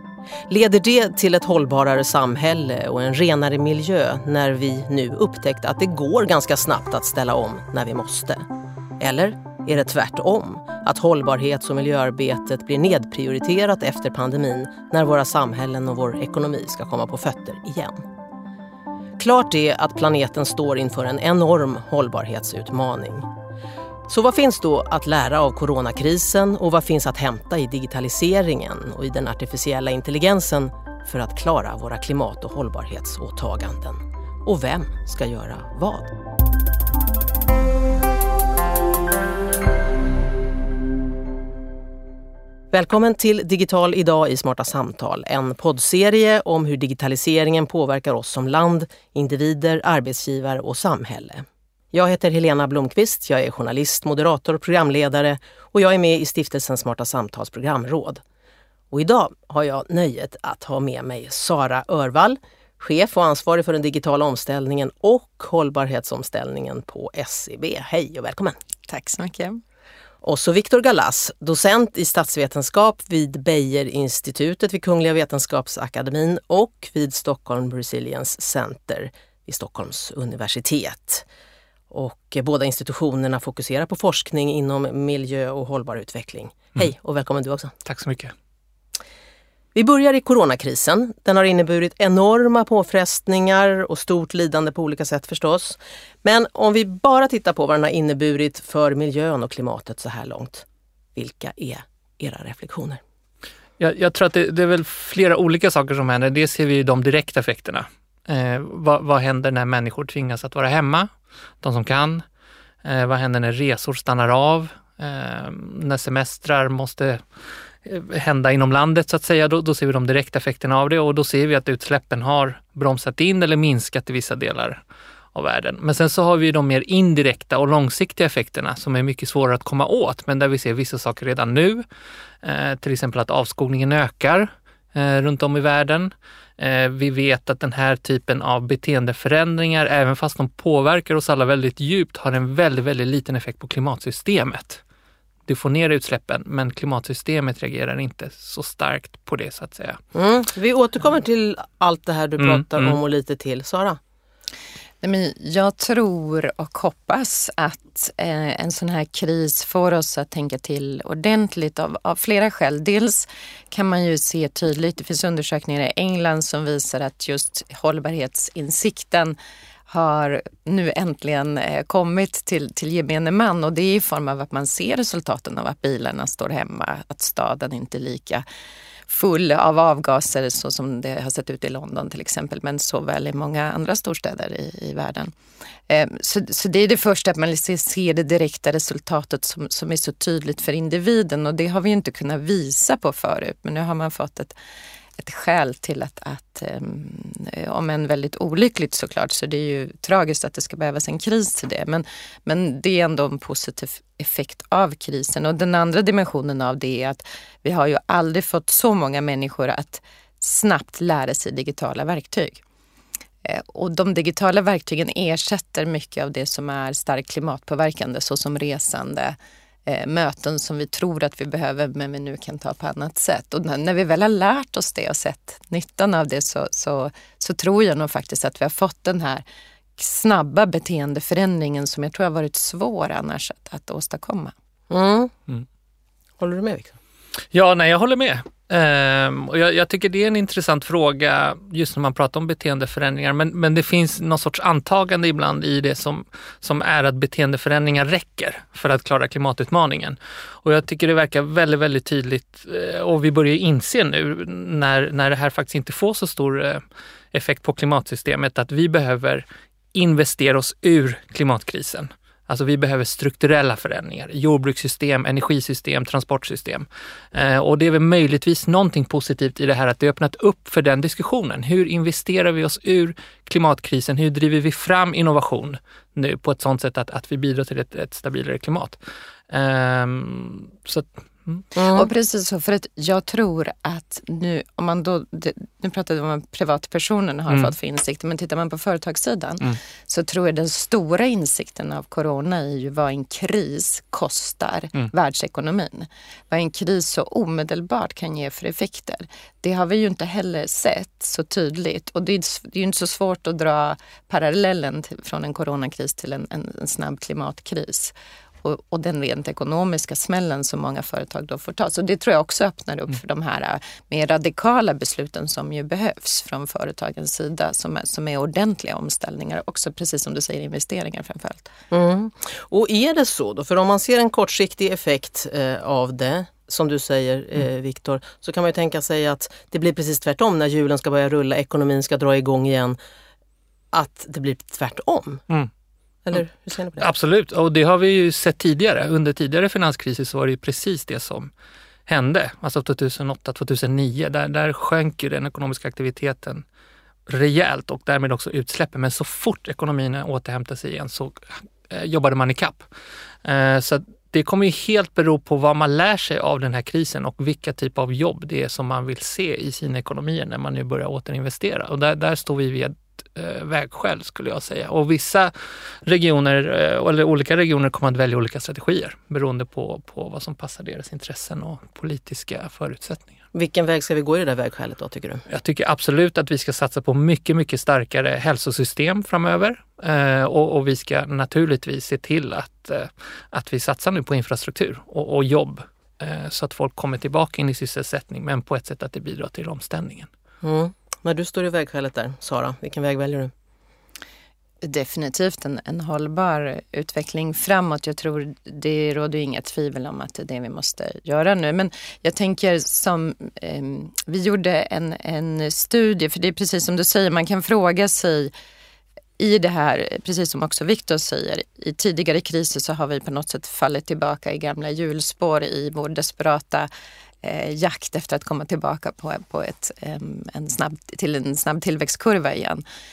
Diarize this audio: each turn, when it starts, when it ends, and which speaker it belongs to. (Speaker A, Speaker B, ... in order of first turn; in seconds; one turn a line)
Speaker A: 0.5-8.4
Speaker A: 9.0-18.0
Speaker A: 19.2-23.3
Speaker A: 24.1-36.1
Speaker A: 42.7-58.2
Speaker A: 58.9-68.6
Speaker B: 68.9-69.6
Speaker A: 70.2-81.2
Speaker A: 81.9-87.7
Speaker C: 87.8-88.3
Speaker A: 89.7-103.0
Speaker C: 103.8-111.1
Speaker C: 111.6-112.2
Speaker C: 112.8-117.2
Speaker C: 117.8-124.8
Speaker C: 125.3-131.8
Speaker C: 132.4-144.8
Speaker C: 145.5-150.0
Speaker A: 150.1-154.0
Speaker C: 152.4-153.0
Speaker B: 155.0-169.3
Speaker B: 169.9-178.4
Speaker B: 179.1-185.3
Speaker B: 185.9-194.5
Speaker B: 195.2-212.6
Speaker B: 213.4-229.4
Speaker B: 230.0-234.5
Speaker A: 234.9-235.3
Speaker A: 236.4-237.0
Speaker C: 237.5-281.6
Speaker A: 281.7-282.1
Speaker B: 281.9-321.7
Speaker A: 321.9-333.0
Speaker A: 333.9-335.4
Speaker A: 336.2-337.1
Speaker C: 337.0-341.5
Speaker C: 342.1-346.6
Speaker C: 347.3-352.9
Speaker C: 353.4-373.4
Speaker A: 373.5-375.4
Speaker C: 375.5-390.3
Speaker A: 390.6-393.5
Speaker B: 394.8-408.5
Speaker B: 409.4-416.9
Speaker B: 417.4-422.8